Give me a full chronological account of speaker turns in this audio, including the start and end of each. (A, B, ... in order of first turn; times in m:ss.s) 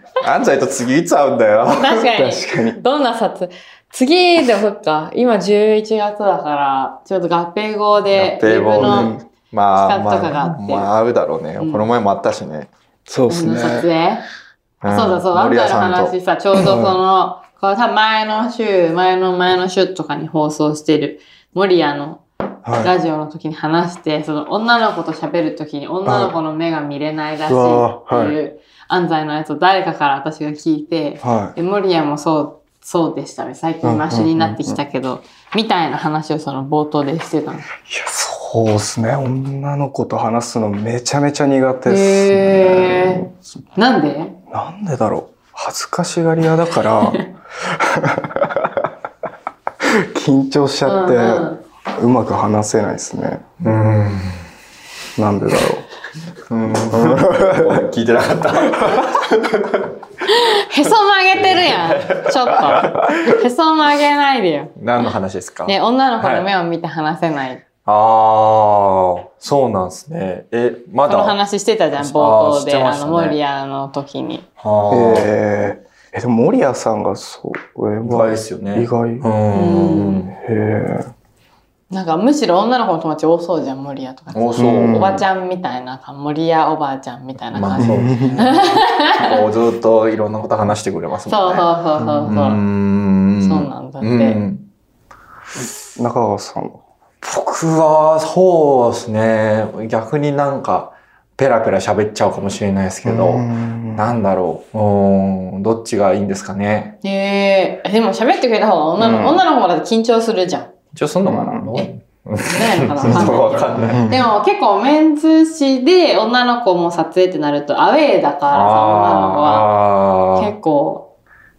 0:00.2-0:02.1 A
0:01.8-0:09.1 B
0:02.1-0:02.8 C
0:08.1-0:12.7 A
0:08.8-0:09.2 C
0:09.8-0:10.9 B
0:11.6-0:11.9 B
0:13.1-0:13.9 C
0:13.3-0:14.2 B
0:14.8-0:16.2 A
0:14.9-0:22.2 B
0:16.6-0:17.0 C
0:22.6-0:22.9 C
0:22.8-0:37.7 B
0:26.0-0:26.4 C
0:27.5-0:28.4 C
0:31.2-0:31.6 C
0:33.8-0:34.8 C
0:37.9-0:43.3 C
0:41.9-0:44.4 B
0:44.5-0:48.9 C
0:49.8-0:53.5 C
0:50.9-0:51.6 B
0:53.6-0:54.4 A
0:55.2-0:55.9 C
0:56.5-0:59.9 A
0:56.9-0:57.8 C
1:00.3-1:04.8 B
1:01.4-1:03.3 A
1:04.8-1:06.5 A
1:05.7-1:07.6 B
1:07.8-1:11.4 A
1:11.1-1:14.4 B
1:12.0-1:13.4 A
1:14.6-1:15.3 A
1:14.9-1:19.3 C
1:18.0-1:20.4 A
1:19.5-1:20.3 B
1:20.3-1:21.1 C
1:21.9-1:29.4 B
1:24.3-1:25.2 A
1:24.6-1:25.2 C
1:27.5-1:31.7 A
1:27.8-1:28.4 C
1:31.3-1:32.6 B
1:32.0-1:32.3 C
1:32.2-1:34.7 A
1:33.4-1:34.4 B
1:36.0-1:36.8 C
1:37.2-1:47.0 A
1:43.0-1:44.2 C
1:47.0-1:50.7 B
1:49.0-1:49.4 A
1:51.0-1:54.1 A
1:51.3-1:51.7 C
1:52.4-1:59.7 B
1:53.8-1:54.2 C
1:58.5-2:00.5 A
2:00.4-2:01.1 B